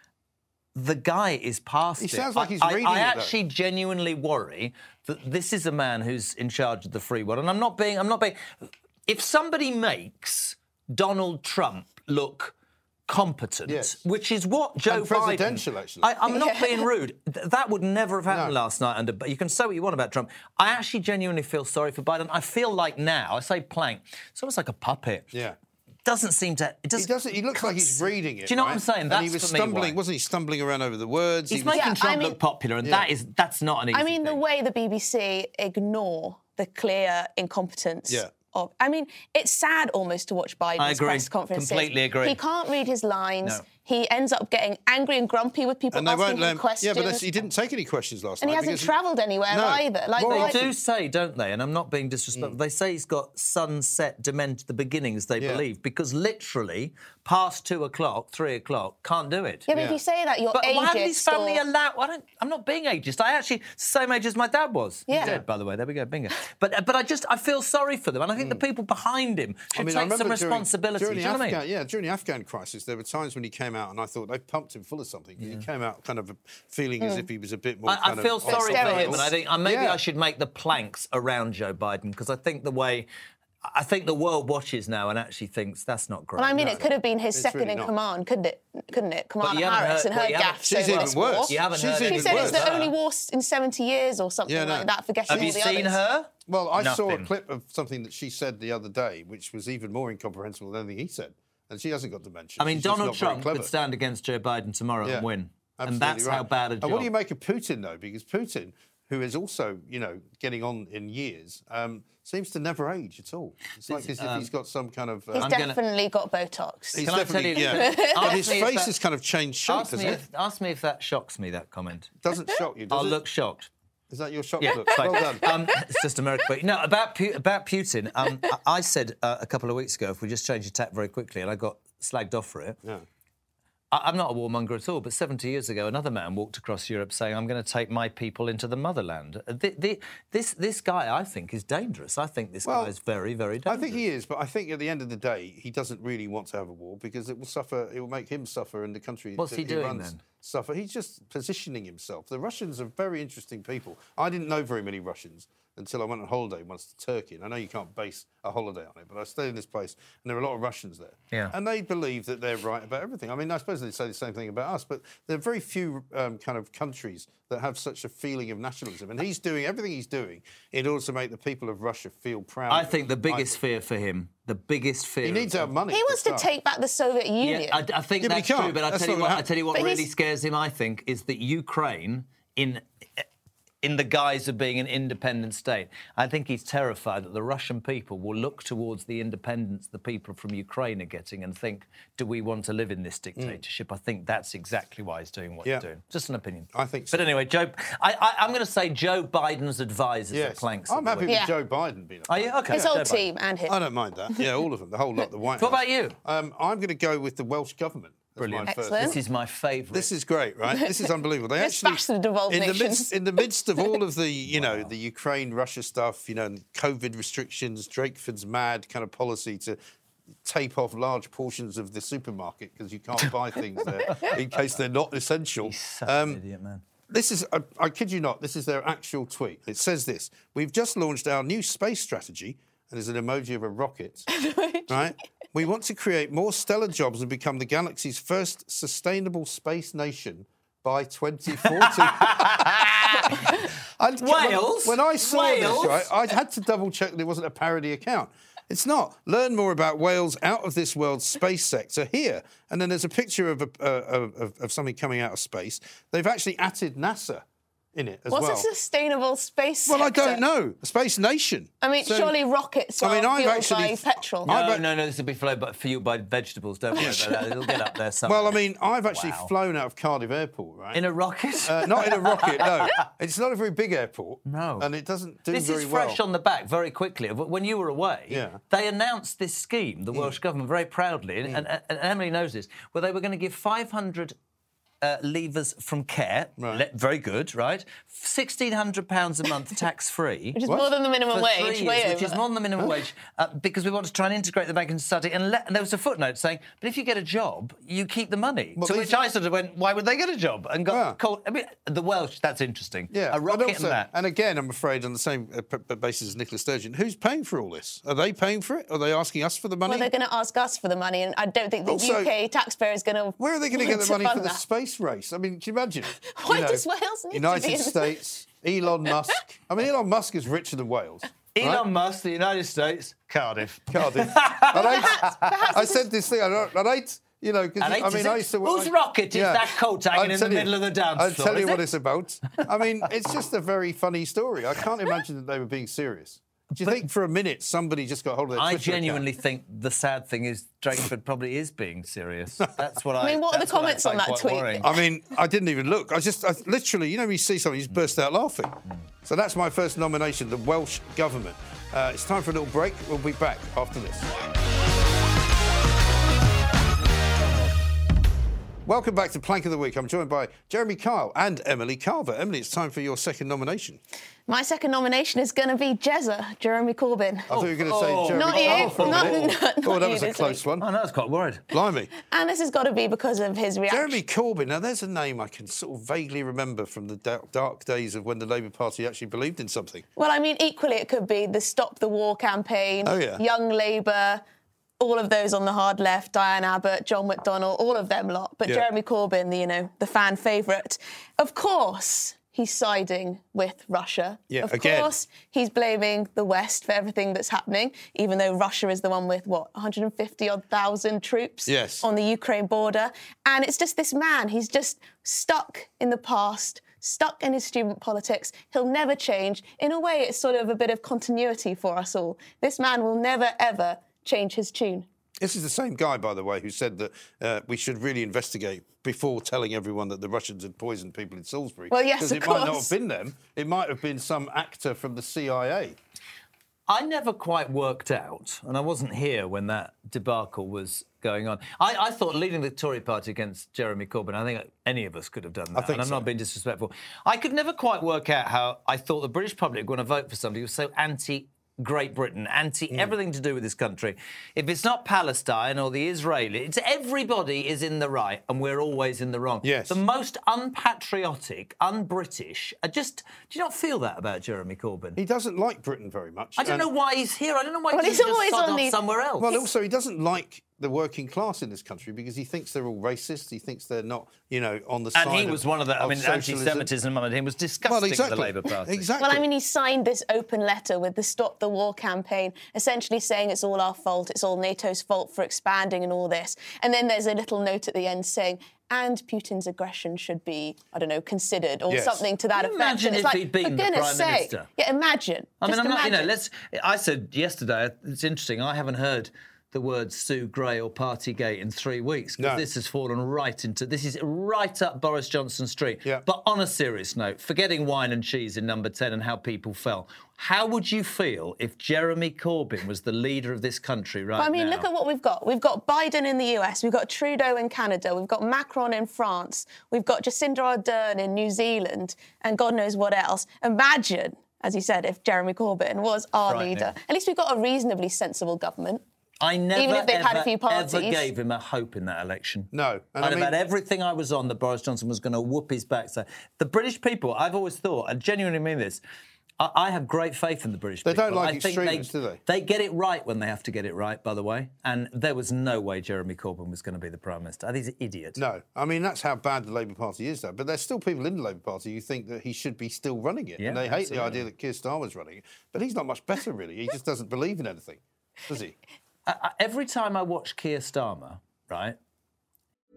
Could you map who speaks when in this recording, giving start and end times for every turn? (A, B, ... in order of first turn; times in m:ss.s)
0:00.7-0:08.5 A
0:02.0-0:03.3 B
0:09.1-0:12.5 A
0:13.1-0:25.3 A
0:13.6-0:14.0 B
0:14.8-0:16.1 B
0:16.3-0:16.9 C
0:18.3-0:18.5 B
0:25.3-0:25.6 B
0:26.0-0:30.0 A
0:27.0-0:31.8 B
0:31.5-0:34.4 A
0:31.7-0:32.4 C
0:33.9-0:47.2 C
0:40.8-0:42.4 A
0:45.9-0:48.9 B
0:48.4-0:50.6 C
0:49.5-0:50.7 B
0:50.2-0:59.7 A
0:55.4-0:55.6 B
0:59.7-1:01.6 C
0:59.7-1:00.0 B
1:00.5-1:11.6 A
1:05.1-1:05.4 C
1:05.1-1:05.4 B
1:08.4-1:08.6 B
1:09.7-1:20.0 B
1:15.4-1:15.6 A
1:17.8-1:23.1 A
1:18.4-1:19.3 C
1:23.6-1:26.8 A
1:26.4-1:36.0 C
1:26.5-1:27.9 B
1:29.4-1:32.9 A
1:30.6-1:32.8 B
1:34.4-1:35.6 B
1:35.3-1:37.3 A
1:36.5-1:43.7 B
1:42.6-1:47.1 A
1:45.8-1:55.5 B
1:53.8-1:54.5 A
1:55.3-1:57.0 C
1:55.4-1:55.8 A
1:56.9-2:00.2 B
1:57.0-1:58.9 A
1:57.6-1:58.4 C
1:59.7-2:02.1 A
2:02.2-2:03.2 B
2:02.9-2:03.7 A
2:04.1-2:05.5 B
2:04.6-2:12.8 A
2:04.7-2:05.5 C
2:13.9-2:24.0 A
2:22.6-2:22.9 B
2:23.6-2:53.6 B
2:29.4-2:30.2 A
2:52.7-2:55.7 A
2:55.2-2:56.4 B
2:55.9-2:57.8 C
2:57.4-3:03.2 A
2:58.2-2:59.5 B
2:59.7-3:00.1 C
3:03.8-3:21.3 A
3:16.7-3:17.3 B
3:20.3-3:29.2 B
3:21.3-3:21.5 C
3:22.3-3:23.2 A
3:22.7-3:23.8 C
3:25.6-3:26.2 A
3:28.4-3:30.1 A
3:28.6-3:29.2 C
3:29.9-3:39.8 B
3:31.6-3:33.1 C
3:34.5-3:34.9 A
3:40.4-3:46.4 B
3:44.1-3:44.3 A
3:45.6-3:46.8 A
3:47.1-3:54.3 B
3:54.3-3:54.9 C
3:54.9-4:18.7 B
4:01.6-4:03.5 A
4:04.2-4:06.1 A
4:18.3-4:20.4 C
4:19.8-4:22.3 B
4:21.8-4:24.5 C
4:23.0-4:24.8 B
4:24.4-4:29.5 A
4:26.9-4:27.9 C
4:27.0-4:27.3 B
4:28.2-4:31.0 B
4:30.9-4:33.0 A
4:31.6-4:36.2 B
4:34.4-4:34.9 A
4:35.5-4:44.3 A
4:38.3-4:38.6 B
4:45.0-4:50.6 A
4:46.6-4:46.8 B
4:50.5-4:52.4 C
4:51.3-5:04.1 A
4:58.8-4:59.2 B
5:00.9-5:01.2 B
5:03.1-5:10.1 B
5:09.8-5:14.6 C
5:11.8-5:12.3 B
5:13.4-5:21.8 B
5:16.3-5:18.1 C
5:21.6-5:25.5 A
5:23.9-5:39.2 B
5:24.7-5:26.0 C
5:27.8-5:31.9 A
5:38.5-5:44.9 A
5:43.2-5:44.9 C
5:44.8-5:54.3 B
5:58.8-6:04.0 B
6:04.5-6:07.5 C
6:07.5-6:10.8 B
6:07.5-6:09.6 A
6:08.3-6:10.6 C
6:10.8-6:11.7 A
6:11.7-6:12.1 B
6:12.3-6:14.2 C
6:13.9-6:20.0 B
6:20.2-6:24.4 C
6:23.0-6:23.4 B
6:25.0-6:55.0 C
6:34.5-6:35.1 B
6:41.6-6:42.0 B
6:55.4-7:06.0 B
7:01.9-7:02.9 C
7:06.9-7:35.2 A
7:15.7-7:16.2 B
7:29.6-7:30.0 B
7:35.2-7:36.9 B
7:36.6-7:39.5 A
7:37.9-7:39.0 C
7:39.4-7:46.9 B
7:45.1-7:49.1 A
7:47.8-7:49.4 B
7:49.2-8:06.3 C
8:01.9-8:02.2 B
8:02.5-8:04.7 A
8:05.6-8:24.9 A
8:12.4-8:12.6 B
8:24.4-8:39.0 C
8:36.4-8:36.9 A
8:39.4-8:49.0 A
8:39.7-8:41.3 C
8:42.7-8:43.6 B
8:49.6-8:58.4 A
8:51.0-8:52.4 B
8:58.4-9:08.8 B
9:03.6-9:04.4 A
9:09.2-9:12.0 A